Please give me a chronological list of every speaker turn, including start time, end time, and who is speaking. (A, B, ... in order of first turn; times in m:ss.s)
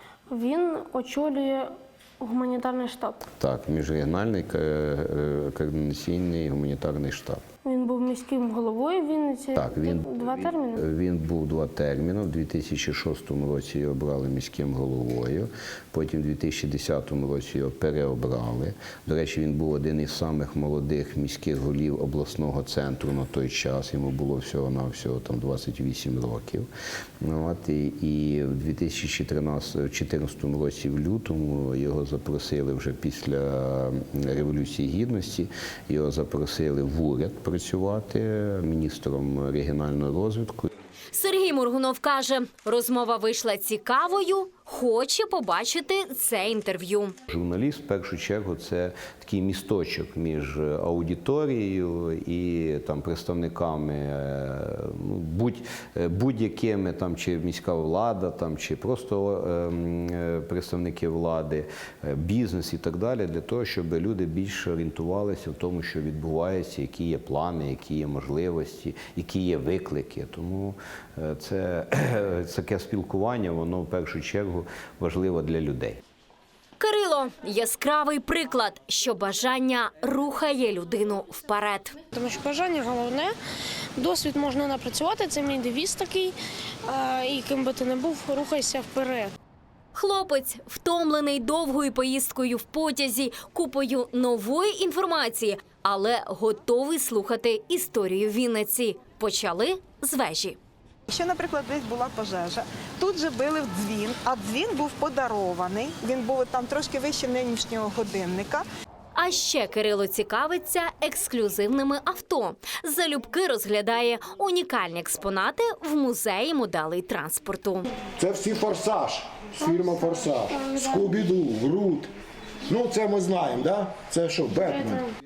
0:00.3-0:01.7 A
0:02.2-0:03.2 A
0:03.4-0:07.4 B
0:07.7-0:10.8 A
0:09.6-0:26.7 B
0:27.2-0:40.7 B
0:41.1-0:47.2 C
0:47.3-1:16.0 B
1:16.8-1:22.0 C
1:22.1-1:23.3 A
1:24.0-1:26.4 A
1:26.9-1:29.3 A
1:30.0-1:40.6 C
1:41.1-1:48.6 D
1:49.2-1:57.8 C
1:58.2-2:02.1 E
1:59.6-2:01.0 A
2:02.6-2:05.0 E
2:04.7-2:05.0 A